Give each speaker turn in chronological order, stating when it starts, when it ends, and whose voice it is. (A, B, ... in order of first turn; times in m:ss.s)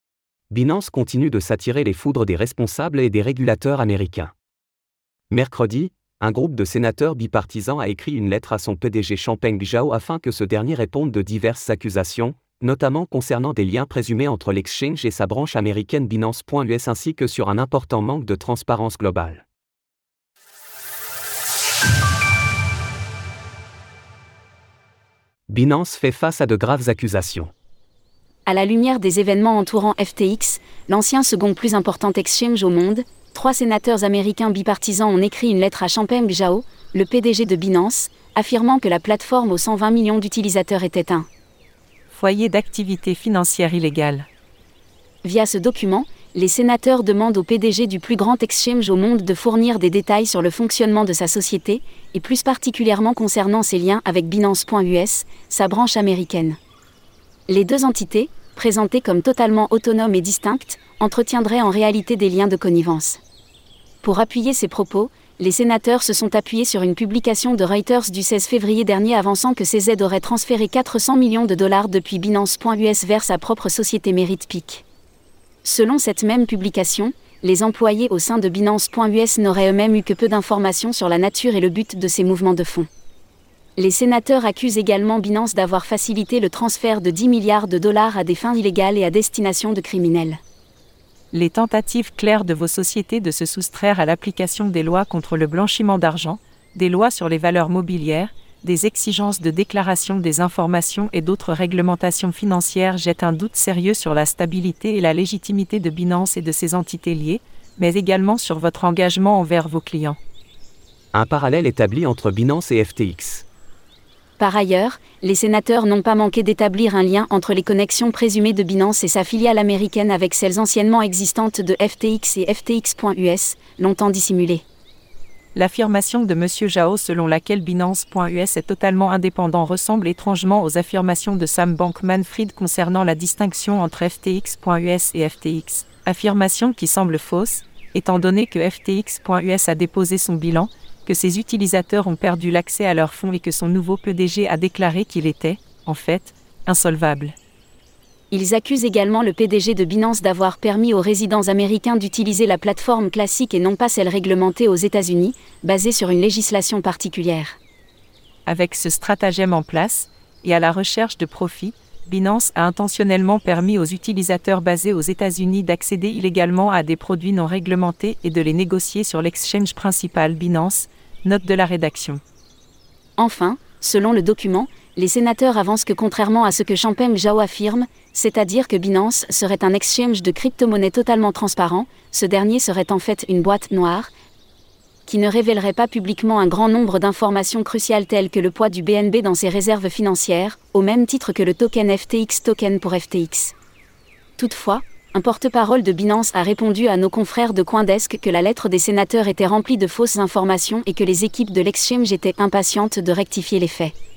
0:00.5-0:04.3 A
0:05.3-0:19.4 A
0:25.5-0:27.5 A
0:28.4-0:41.3 B
0:42.1-0:44.3 C
0:45.2-0:56.6 B
0:57.5-1:03.2 B
1:04.0-1:14.8 B
1:15.6-1:22.9 B
1:23.8-1:30.4 B
1:31.3-1:50.2 C
1:51.1-1:53.4 A
1:54.4-2:04.6 B
2:05.5-2:27.4 C
2:28.3-2:37.6 B
2:38.4-2:52.2 C
2:53.2-3:04.1 B
3:05.0-3:13.5 B
3:14.4-3:23.9 B